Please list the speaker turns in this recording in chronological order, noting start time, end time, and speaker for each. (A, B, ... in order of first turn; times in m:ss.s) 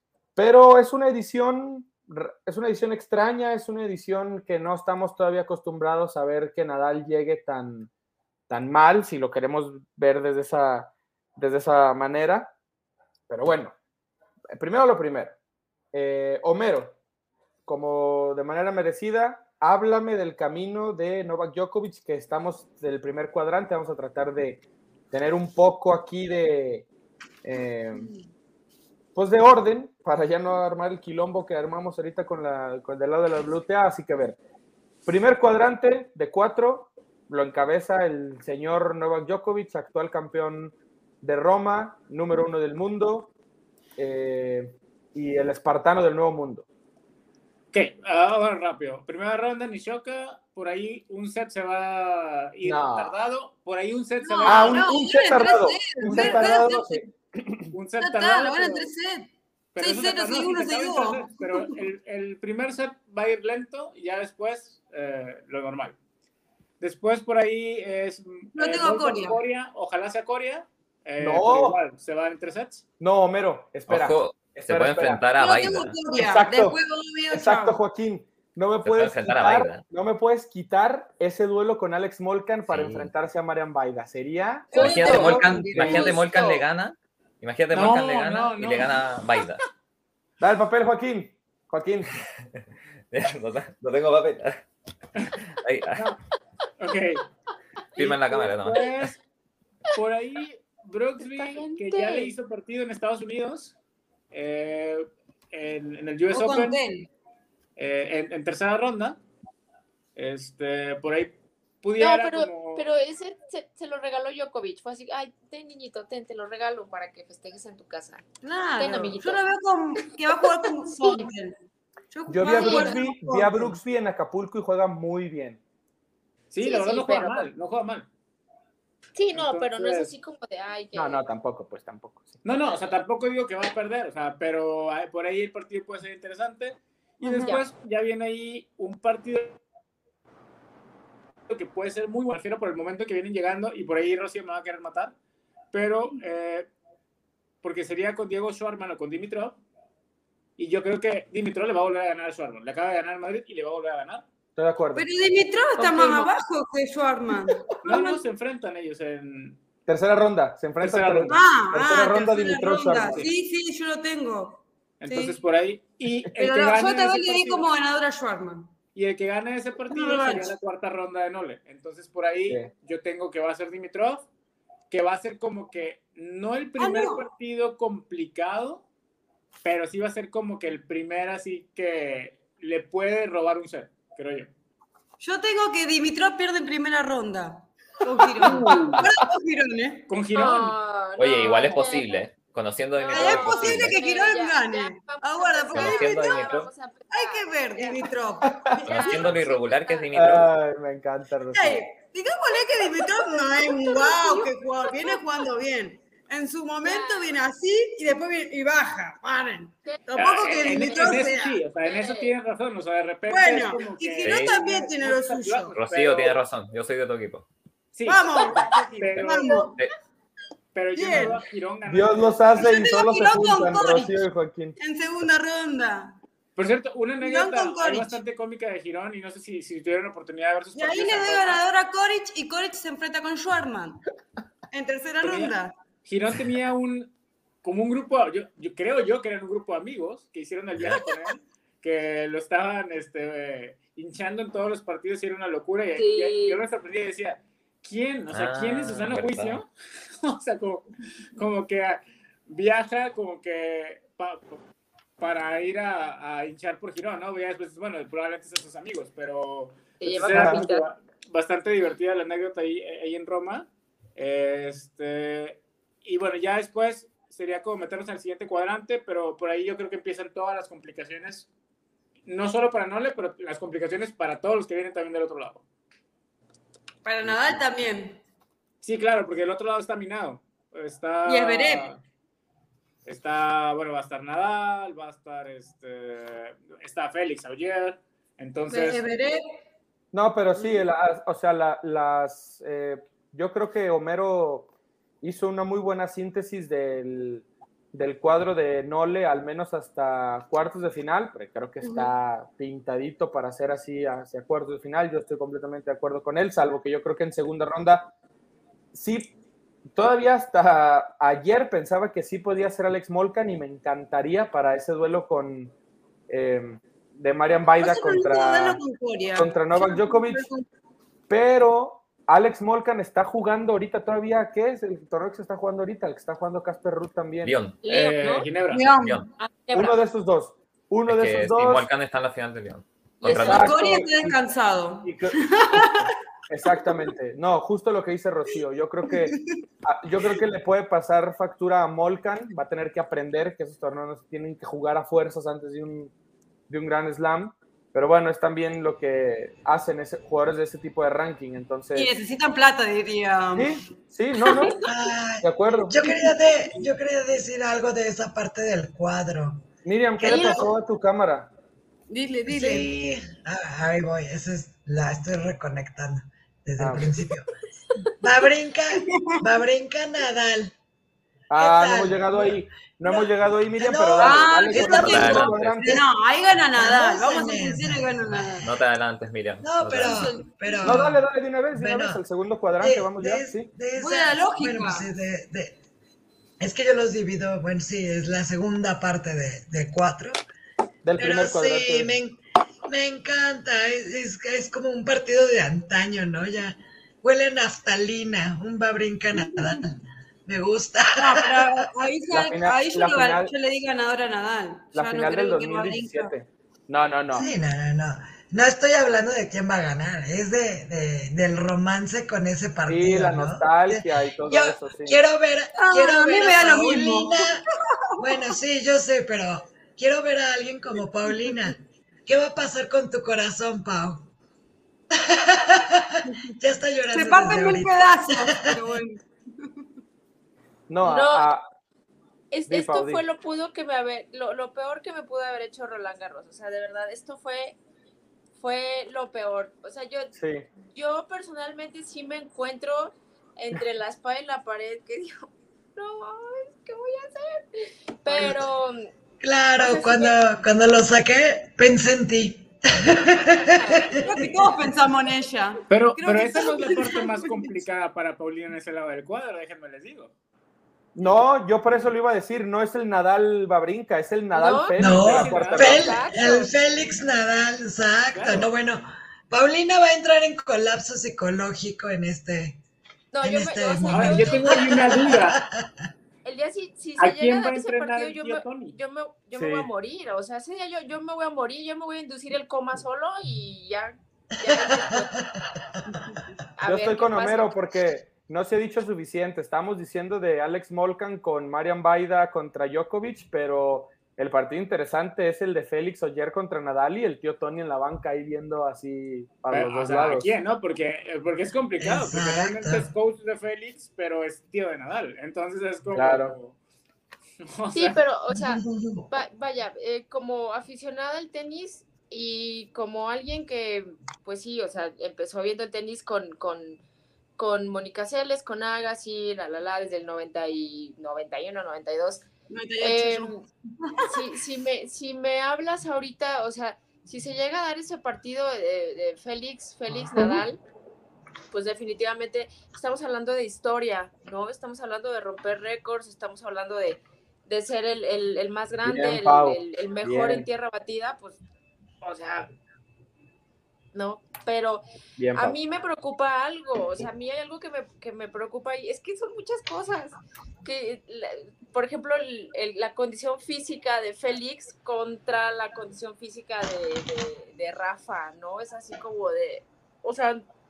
0:00.4-0:07.9 A
0:08.5-0:12.5 A
0:13.3-0:13.7 A
0:14.5-0:15.4 A
0:15.9-0:17.0 A
0:17.7-0:26.9 A
0:27.4-0:28.1 A
0:29.1-0:34.4 A
0:35.0-0:43.3 A
0:44.0-0:46.6 A
0:47.7-0:54.9 B
0:52.6-0:53.1 A
0:54.2-0:57.0 C
0:54.4-0:57.7 A
0:56.1-0:56.6 B
0:57.7-0:58.9 B
0:58.0-1:01.8 C
0:59.7-1:06.0 B
1:06.8-1:12.8 B
1:08.5-1:09.4 C
1:11.2-1:11.8 A
1:13.0-1:15.3 A
1:13.9-1:16.1 D
1:15.3-1:17.8 C
1:16.1-1:16.8 A
1:17.3-1:26.1 A
1:18.8-1:19.8 D
1:22.7-1:23.1 D
1:24.7-1:26.0 C
1:24.7-1:26.6 E
1:24.7-1:29.6 D
1:27.7-1:29.0 B
1:30.4-1:32.1 A
1:32.6-1:34.6 D
1:35.6-1:36.1 D
1:36.8-1:37.2 B
1:38.0-1:39.1 D
1:38.0-1:39.2 B
1:39.9-1:43.7 B
1:41.3-1:42.3 E
1:44.3-1:46.8 B
1:46.3-1:47.1 C
1:47.8-1:49.2 B
1:50.2-1:52.8 B
1:52.0-1:58.2 E
1:58.4-2:01.6 C
1:58.8-1:59.4 E
2:00.8-2:01.3 E
2:02.1-2:03.8 C
2:02.3-2:05.6 A
2:02.4-2:03.0 E
2:06.5-2:08.1 B
2:06.6-2:07.5 E
2:09.1-2:11.2 E
2:09.3-2:10.1 B
2:10.9-2:12.4 A
2:12.4-2:19.6 B
2:17.3-2:17.6 A
2:21.5-2:25.1 B
2:25.7-2:26.7 B
2:27.6-2:29.6 B
2:30.6-2:34.2 B
2:34.6-2:35.1 A
2:34.9-2:38.2 C
2:35.8-2:36.3 B
2:37.8-2:39.6 B
2:39.9-2:43.3 A
2:40.8-2:41.4 B
2:41.3-2:45.4 C
2:43.0-2:43.3 B
2:45.0-2:47.7 B
2:46.4-2:48.7 C
2:48.9-2:54.2 B
2:49.8-2:50.5 C
2:54.9-2:58.8 B
2:56.8-2:57.3 C
2:59.6-3:04.5 B
3:05.2-3:10.0 C
3:08.4-3:09.0 B
3:10.1-3:10.8 B
3:10.3-3:12.3 E
3:11.2-3:14.0 D
3:12.9-3:18.1 E
3:13.1-3:16.4 C
3:15.7-3:16.7 D
3:17.1-3:19.5 C
3:18.5-3:18.8 A
3:18.9-3:20.1 E
3:18.9-3:20.5 D
3:20.1-3:21.8 A
3:21.5-3:31.6 C
3:23.7-3:25.5 E
3:26.8-3:27.4 E
3:29.8-3:31.2 E
3:30.2-3:36.4 B
3:31.9-3:32.3 E
3:33.3-3:35.8 C
3:34.2-3:34.6 D
3:35.7-3:37.5 D
3:37.9-3:39.7 B
3:38.0-3:39.8 C
3:40.7-3:42.4 B
3:40.9-3:41.4 C
3:41.9-3:44.8 A
3:42.6-3:44.2 C
3:44.8-3:46.2 C
3:46.6-3:51.6 B
3:47.2-3:48.2 C
3:50.7-3:54.0 C
3:54.7-3:55.8 C
3:55.2-3:55.5 B
3:56.0-3:57.1 B
3:57.6-4:09.7 B
4:06.0-4:06.6 E
4:08.3-4:09.6 D
4:10.2-4:14.6 B
4:15.2-4:31.5 B
4:20.0-4:20.9 E
4:20.2-4:20.6 A
4:32.2-4:35.6 B
4:37.0-4:38.2 C
4:38.8-4:42.0 B
4:41.2-4:41.9 C
4:43.0-4:49.0 B
4:48.7-4:49.5 C
4:50.1-4:54.7 A
4:50.6-4:50.8 C
4:55.2-5:08.1 A
5:01.8-5:02.1 C
5:08.9-5:09.3 A
5:09.9-5:15.7 A
5:16.3-5:18.8 A
5:17.7-5:20.6 C
5:19.4-5:20.5 A
5:21.3-5:27.6 A
5:27.4-5:27.8 D
5:27.8-5:28.5 E
5:27.8-5:28.9 B
5:28.7-5:29.2 C
5:29.0-5:29.3 D
5:29.4-5:30.0 E
5:29.7-5:31.9 A
5:31.0-5:33.7 D
5:33.2-5:36.1 C
5:33.3-5:34.4 A
5:35.0-5:46.1 A
5:39.1-5:39.6 C
5:46.7-5:52.2 A
5:51.9-5:53.7 C
5:53.6-5:54.8 A
5:54.4-5:54.8 C
5:54.8-5:59.7 F
5:55.4-5:56.0 A
5:59.8-6:01.5 A
6:00.2-6:00.7 F
6:02.1-6:02.9 C
6:02.5-6:07.4 F
6:06.8-6:07.2 A
6:08.2-6:10.7 F
6:08.9-6:09.4 C
6:11.5-6:16.0 A
6:11.6-6:16.0 F
6:14.2-6:18.7 C
6:15.0-6:15.8 D
6:16.8-6:18.7 F
6:18.6-6:20.3 D
6:19.6-6:22.2 F
6:20.0-6:20.5 C
6:20.8-6:23.7 A
6:22.8-6:25.8 F
6:23.9-6:25.1 C
6:26.6-6:30.4 F
6:31.0-6:32.1 A
6:31.2-6:41.7 F
6:39.3-6:39.8 C
6:41.2-6:46.3 C
6:42.3-6:43.5 A
6:44.9-6:47.5 A
6:47.3-6:57.6 F
6:52.9-6:55.2 A
6:55.8-6:57.5 C
6:58.2-7:04.3 F
7:05.1-7:08.8 F
7:07.1-7:09.7 C
7:10.9-7:11.7 A
7:11.0-7:11.5 E
7:12.5-7:17.8 E
7:12.7-7:13.2 A
7:18.6-7:20.3 E
7:20.4-7:20.6 A
7:20.9-7:29.1 E
7:29.4-7:34.7 F
7:29.8-7:30.4 E
7:33.7-7:34.3 E
7:34.2-7:37.7 C
7:35.9-7:40.3 B
7:41.2-7:46.1 A
7:44.5-7:45.0 E
7:45.0-7:52.8 F
7:45.0-7:46.0 B
7:45.7-7:46.7 E
7:48.3-7:48.7 B
7:53.3-7:55.3 E
7:53.4-7:55.9 F
7:54.1-7:55.6 B
7:56.4-8:05.3 E
7:57.2-7:59.0 B
7:59.5-7:59.9 A
8:04.7-8:05.6 F
8:06.8-8:07.7 E
8:06.8-8:20.5 A
8:19.7-8:26.8 B
8:22.0-8:23.1 F
8:26.1-8:26.6 A
8:27.6-8:28.2 B
8:27.9-8:37.0 E
8:28.5-8:29.2 F
8:37.6-8:42.4 E
8:42.7-8:44.4 C
8:43.0-8:43.6 E
8:44.2-8:50.8 E
8:51.7-9:01.6 E
8:59.0-9:00.6 A
9:02.2-9:02.7 E
9:04.1-9:20.7 E
9:05.4-9:05.8 A